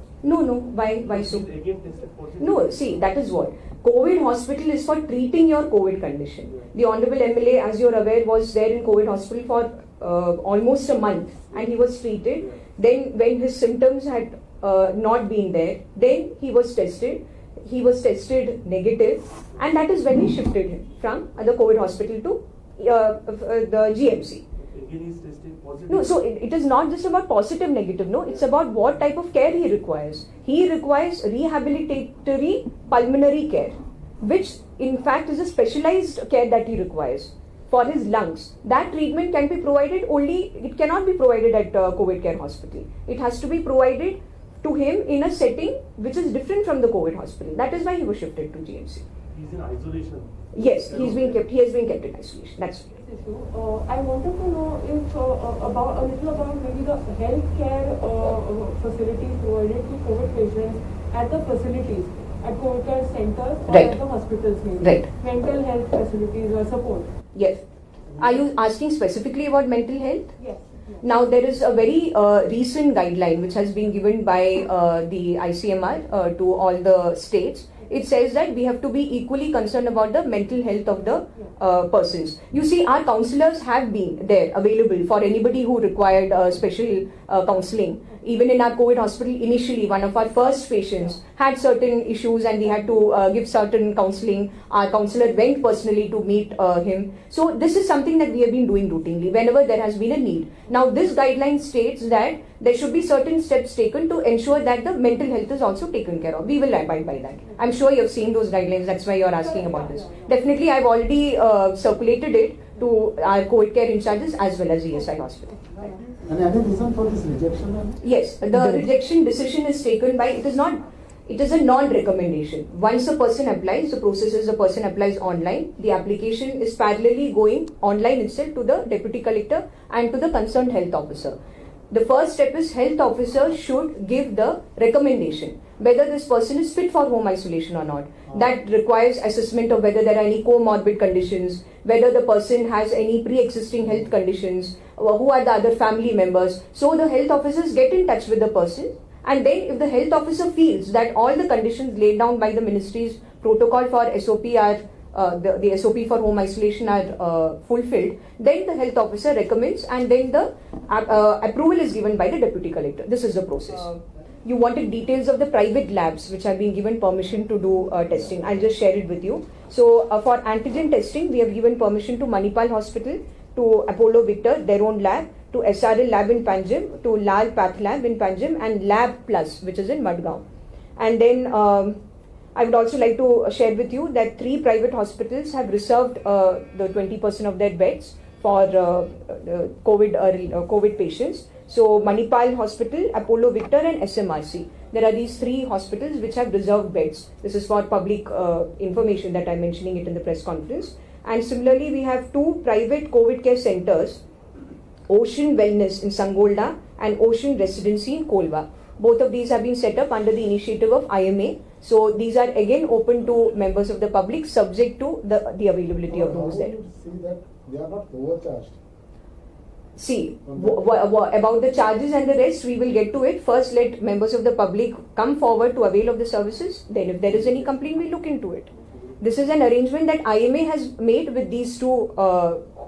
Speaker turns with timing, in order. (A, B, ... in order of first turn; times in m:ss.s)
0:00.2-0:01.4 A
0:01.1-0:03.1 B
0:02.4-0:24.4 A
0:24.6-0:26.2 B
0:25.9-0:49.0 A
0:49.3-0:51.4 B
0:50.6-0:52.9 A
0:53.0-1:07.1 C
1:03.7-1:04.0 A
1:04.8-1:05.1 A
1:07.4-1:07.6 A
1:08.1-1:08.4 D
1:08.2-1:10.3 A
1:10.4-1:11.1 C
1:11.0-1:55.6 A
1:49.4-1:50.3 C
1:55.8-1:58.0 D
1:58.0-2:11.4 A
2:11.9-3:00.4 A
3:01.0-3:02.0 A
3:02.6-3:24.2 A
3:25.1-3:36.8 A
3:36.1-3:38.8 D
3:40.0-3:52.7 A
3:40.5-3:40.8 D
3:47.3-3:47.9 D